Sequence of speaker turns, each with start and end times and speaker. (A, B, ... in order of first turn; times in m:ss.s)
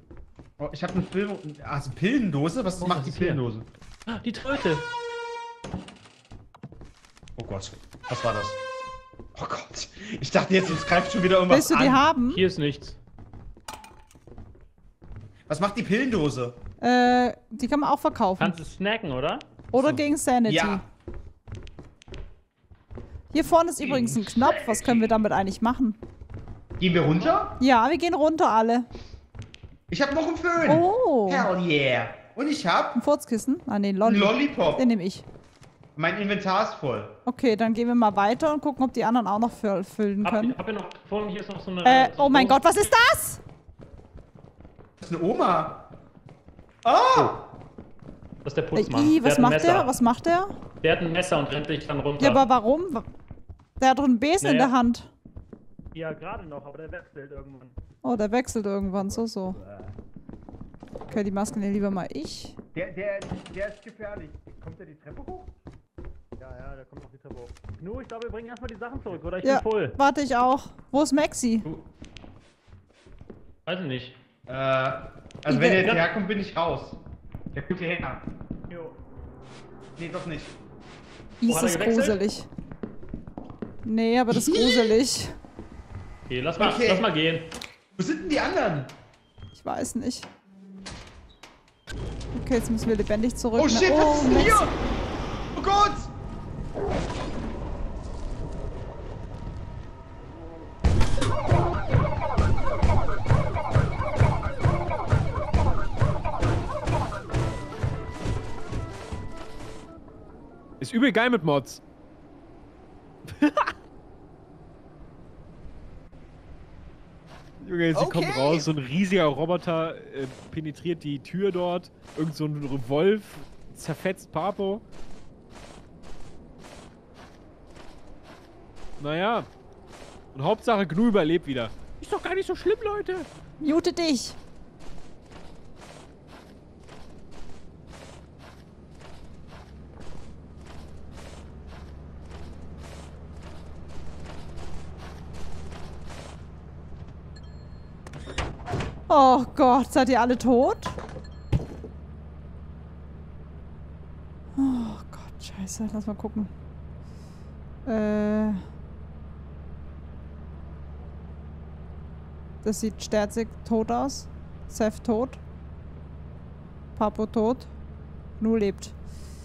0:00.6-0:03.6 A
0:02.8-0:03.4 B
0:04.0-0:04.8 B
0:07.4-0:08.6 A
0:09.3-0:12.0 A
0:11.5-0:12.4 C
0:12.3-0:13.0 B
0:15.5-0:16.6 A
0:16.8-0:18.6 C
0:18.4-0:19.5 B
0:19.7-0:20.8 C
0:19.8-0:20.8 A
0:23.3-0:26.0 C
0:23.8-0:25.0 B
0:26.8-0:27.6 A
0:27.6-0:28.9 C
0:29.9-0:33.0 A
0:30.6-0:31.5 C
0:33.0-0:35.2 C
0:34.0-0:34.8 A
0:36.0-0:37.2 A
0:37.2-0:40.6 C
0:40.2-0:42.6 B
0:41.8-0:43.4 C
0:45.0-0:45.8 A
0:46.8-0:47.4 A
0:48.4-0:49.9 B
0:48.8-0:50.6 C
0:50.8-0:52.5 B
0:52.2-0:53.1 C
0:53.8-0:55.1 C
0:54.4-0:54.7 B
0:55.9-0:57.8 B
0:58.0-0:59.6 C
0:59.6-0:59.9 A
1:01.0-1:02.6 C
1:02.8-1:05.5 A
1:06.4-1:10.0 B
1:09.4-1:11.7 C
1:13.6-1:14.2 B
1:14.5-1:17.0 A
1:15.5-1:16.0 C
1:17.5-1:18.2 A
1:18.7-1:19.0 B
1:20.0-1:20.5 A
1:21.4-1:22.5 C
1:21.4-1:22.2 B
1:23.8-1:25.4 C
1:24.3-1:25.0 A
1:26.3-1:27.5 B
1:26.6-1:27.0 A
1:28.0-1:28.9 A
1:29.6-1:30.3 C
1:32.3-1:34.7 C
1:33.6-1:34.8 A
1:35.5-1:36.1 A
1:50.8-1:51.8 D
1:53.3-1:53.7 D
1:57.6-2:04.8 D
1:57.9-1:58.7 A
2:09.0-2:09.5 D
2:10.3-2:13.3 D
2:13.6-2:14.4 C
2:29.1-2:30.9 C
2:34.6-2:36.5 C
2:37.9-2:38.6 C
2:42.6-2:45.4 C
2:47.0-2:47.7 C
2:48.4-2:49.0 C